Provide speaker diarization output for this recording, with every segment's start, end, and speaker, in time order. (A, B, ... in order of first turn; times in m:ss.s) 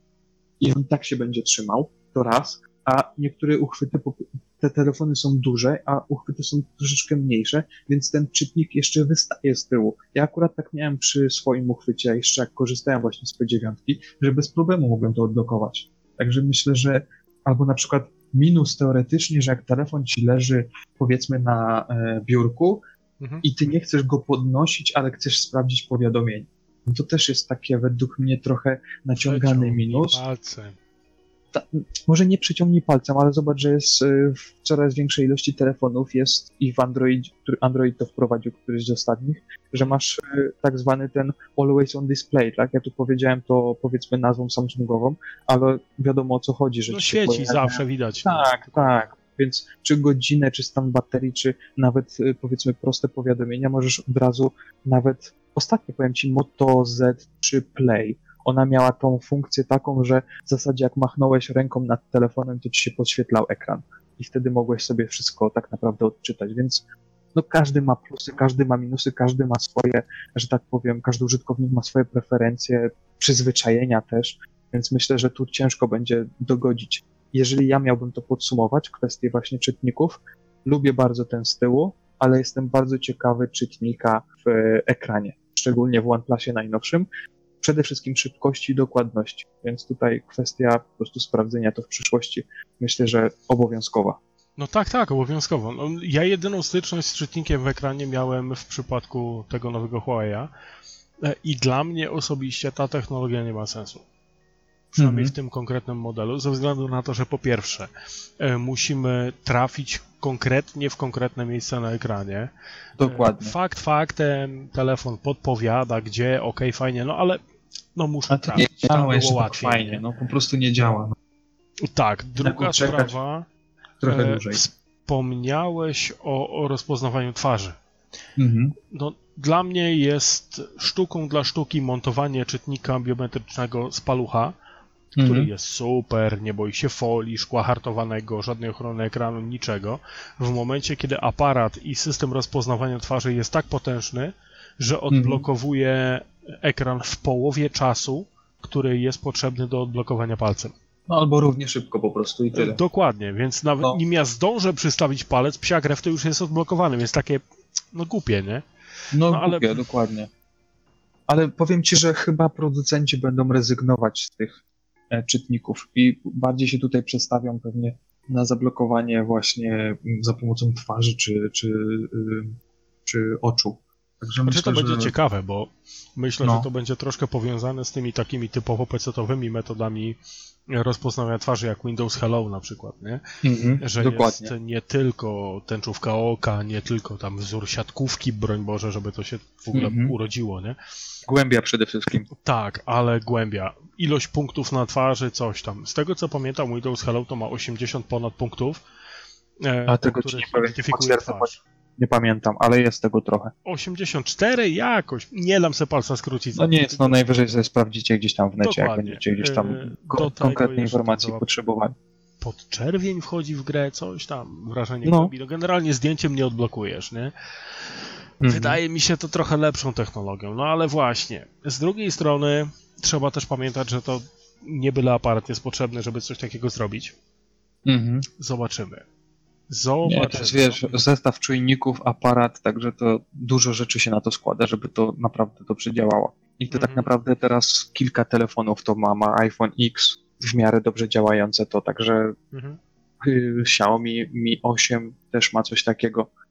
0:00.6-0:22.8 A
0:23.2-0:23.4 B
0:23.4-0:30.2 A
0:29.2-0:30.8 B
0:31.5-1:27.1 A
0:46.9-0:48.9 B
1:27.6-1:34.2 A
1:34.6-1:40.5 B
1:41.2-1:44.0 B
1:44.9-1:52.5 B
1:45.0-1:45.3 A
1:53.0-1:53.5 A
1:53.0-1:57.4 B
1:57.9-2:00.0 B
1:58.3-2:01.2 A
2:01.8-2:03.4 B
2:02.4-2:03.1 A
2:04.0-2:04.6 A
2:04.1-2:07.8 B
2:08.4-2:08.8 A
2:08.9-2:14.5 B
2:15.2-2:15.5 A
2:15.2-2:30.7 B
2:25.1-2:25.4 A
2:31.1-2:32.8 A
2:32.5-2:38.6 B
2:39.1-2:40.3 A
2:39.3-2:39.8 B
2:41.3-2:44.6 A
2:45.1-2:55.1 A
2:54.4-3:00.2 B
3:00.7-3:03.2 B
3:03.4-3:04.5 A
3:03.8-3:10.8 B
3:09.7-3:10.1 A
3:11.3-3:12.3 A
3:12.3-3:18.8 B
3:19.6-3:21.6 B
3:19.9-3:23.5 A
3:23.6-3:27.4 B
3:26.5-3:31.9 A
3:28.6-3:31.4 B
3:32.4-3:47.1 B
3:35.0-3:35.3 A
3:38.4-3:38.8 A
3:47.8-3:48.2 A
3:48.4-3:49.0 B
3:49.7-3:51.0 B
3:50.0-4:02.3 A
3:56.7-3:57.1 B
4:02.5-4:02.8 B
4:03.2-4:06.3 A